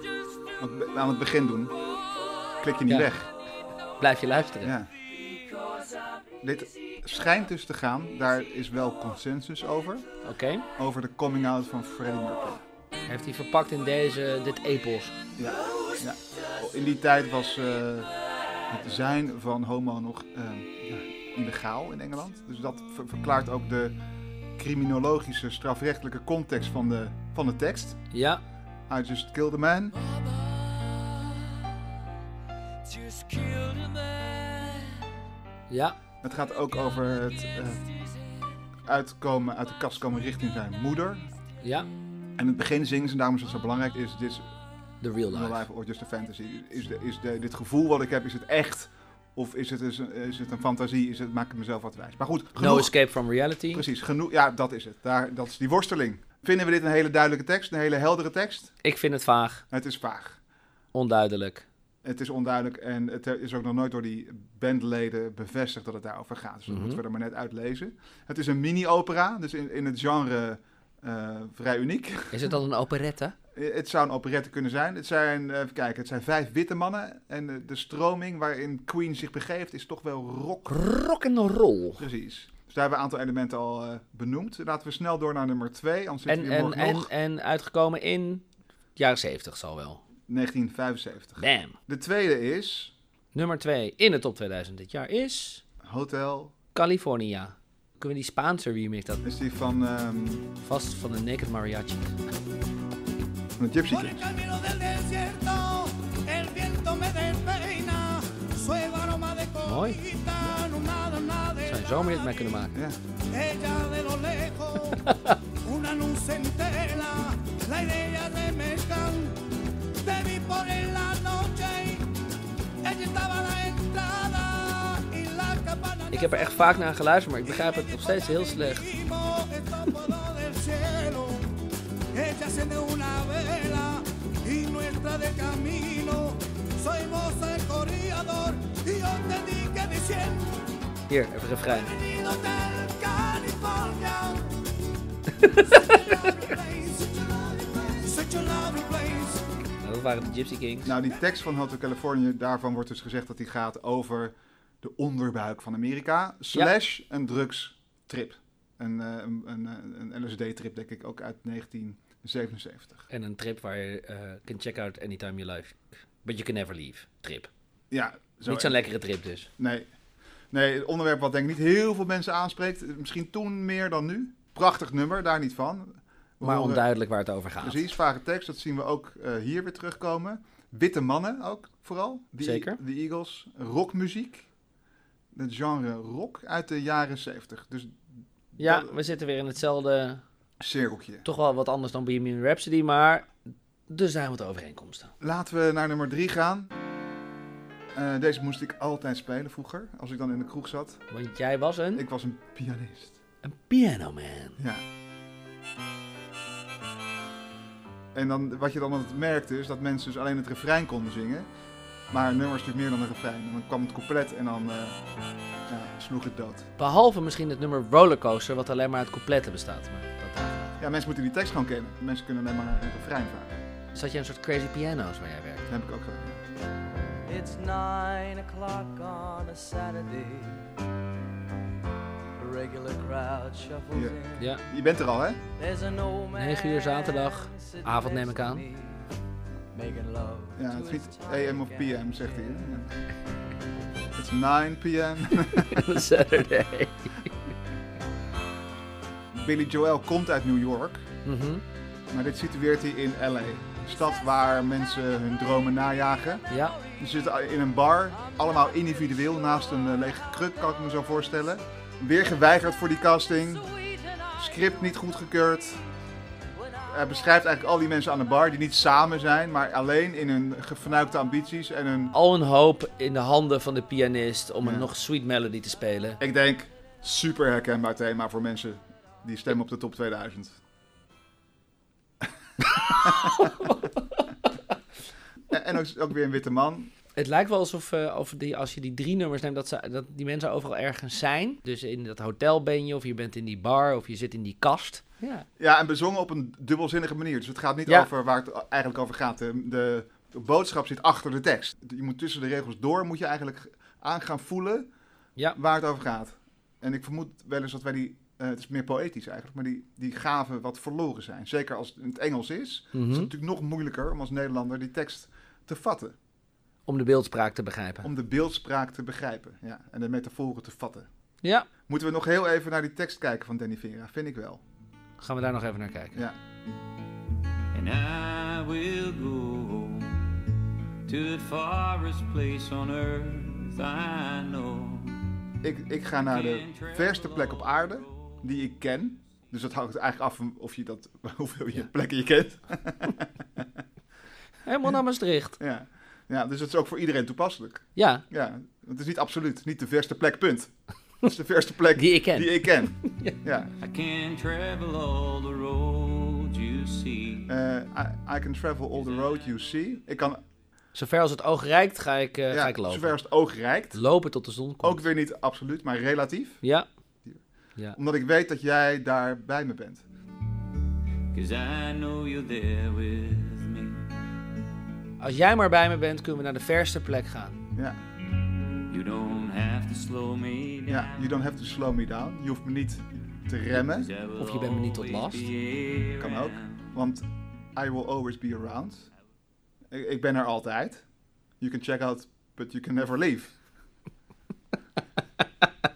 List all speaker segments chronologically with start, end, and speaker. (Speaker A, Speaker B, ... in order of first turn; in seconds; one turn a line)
Speaker A: 0.6-1.8
Speaker A: 2.6-3.3
Speaker B: 4.0-4.7
Speaker A: 4.6-4.9
Speaker C: 5.3-5.9
Speaker A: 6.4-10.1
Speaker B: 10.2-10.7
Speaker A: 10.8-12.6
Speaker B: 13.1-15.2
Speaker A: 15.4-18.1
Speaker A: 18.7-24.0
Speaker A: 24.6-28.0
Speaker B: 28.1-28.4
Speaker A: 28.9-30.0
Speaker D: 30.1-31.3
Speaker D: 33.1-34.5
Speaker B: 35.7-36.0
Speaker A: 36.2-37.8
Speaker A: 38.9-41.3
Speaker B: 41.6-41.9
Speaker A: 42.4-44.5
Speaker B: 45.0-45.6
Speaker A: 45.3-53.0
Speaker B: 52.6-53.9
Speaker A: 53.7-58.7
Speaker B: 58.8-59.6
Speaker A: 59.7-60.4
Speaker B: 60.9-61.7
Speaker A: 62.0-72.5
Speaker B: 66.7-67.0
Speaker B: 72.3-73.3
Speaker A: 73.5-80.8
Speaker B: 80.7-82.0
Speaker A: 82.0-87.1
Speaker B: 86.3-88.5
Speaker B: 89.0-90.0
Speaker A: 90.3-92.9
Speaker B: 91.4-91.8
Speaker B: 93.3-95.6
Speaker A: 95.8-96.5
Speaker B: 96.8-99.2
Speaker A: 99.2-100.5
Speaker B: 100.6-102.2
Speaker A: 103.6-104.3
Speaker B: 109.6-110.0
Speaker B: 111.6-112.8
Speaker C: 114.5-115.0
Speaker B: 114.9-115.4
Speaker B: 126.1-128.9
Speaker C: 129.1-129.3
Speaker C: 130.0-130.4
Speaker E: 138.6-139.4
Speaker B: 141.1-141.9
Speaker E: 142.6-144.1
Speaker D: 142.8-144.2
Speaker B: 145.4-146.3
Speaker D: 146.3-148.6
Speaker E: 148.6-149.1
Speaker B: 149.8-150.9
Speaker A: 150.8-163.1
Speaker B: 163.1-167.5
Speaker A: 167.9-168.8
Speaker B: 168.5-169.5
Speaker A: 169.6-169.9
Speaker A: 170.5-176.8
Speaker B: 176.4-177.8
Speaker A: 177.6-184.5
Speaker B: 182.4-182.8
Speaker A: 185.3-188.9
Speaker B: 188.6-190.2
Speaker A: 190.6-191.2
Speaker B: 191.2-193.3
Speaker B: 193.9-195.1
Speaker A: 195.2-196.7
Speaker A: 197.9-201.0
Speaker B: 201.1-202.1
Speaker A: 201.9-203.2
Speaker B: 203.4-204.6
Speaker A: 204.6-204.8
Speaker A: 208.1-211.5
Speaker A: 212.1-215.0
Speaker A: 215.7-216.7
Speaker B: 216.8-220.8
Speaker A: 220.8-223.6
Speaker B: 223.9-225.7
Speaker A: 225.7-226.4
Speaker D: 227.2-230.7
Speaker D: 232.4-234.5
Speaker A: 233.9-235.4
Speaker D: 235.6-239.1
Speaker B: 236.3-238.6
Speaker D: 239.7-242.8
Speaker A: 240.6-243.0
Speaker A: 244.2-246.0
Speaker B: 245.5-247.3
Speaker A: 249.3-251.1
Speaker B: 251.2-251.6
Speaker A: 252.1-256.5
Speaker B: 256.5-256.8
Speaker A: 257.0-263.7
Speaker A: 264.4-265.8
Speaker A: 266.9-272.1
Speaker B: 272.1-276.2
Speaker A: 274.6-274.9
Speaker A: 276.2-280.6
Speaker B: 282.7-284.3
Speaker A: 282.9-283.4
Speaker A: 285.5-286.9
Speaker B: 287.2-295.4
Speaker A: 295.6-304.9
Speaker A: 305.6-316.2
Speaker B: 312.9-313.3
Speaker B: 316.9-318.1
Speaker A: 318.0-321.1
Speaker A: 321.9-324.6
Speaker B: 325.2-326.2
Speaker C: 327.7-330.4
Speaker C: 331.1-335.2
Speaker A: 335.6-343.7
Speaker C: 336.3-338.4
Speaker B: 344.7-345.6
Speaker A: 345.6-353.7
Speaker B: 348.0-348.2
Speaker B: 351.9-353.4
Speaker C: 353.8-357.5
Speaker A: 357.5-360.4
Speaker C: 359.1-359.4
Speaker B: 360.9-363.2
Speaker A: 362.5-364.0
Speaker B: 363.9-365.0
Speaker A: 364.8-366.6
Speaker A: 367.9-370.0
Speaker C: 371.3-374.1
Speaker B: 375.2-377.6
Speaker C: 378.9-381.2
Speaker A: 380.9-384.1
Speaker C: 383.9-386.9
Speaker B: 384.4-385.5
Speaker A: 386.2-389.1
Speaker A: 389.9-391.0
Speaker A: 391.6-393.6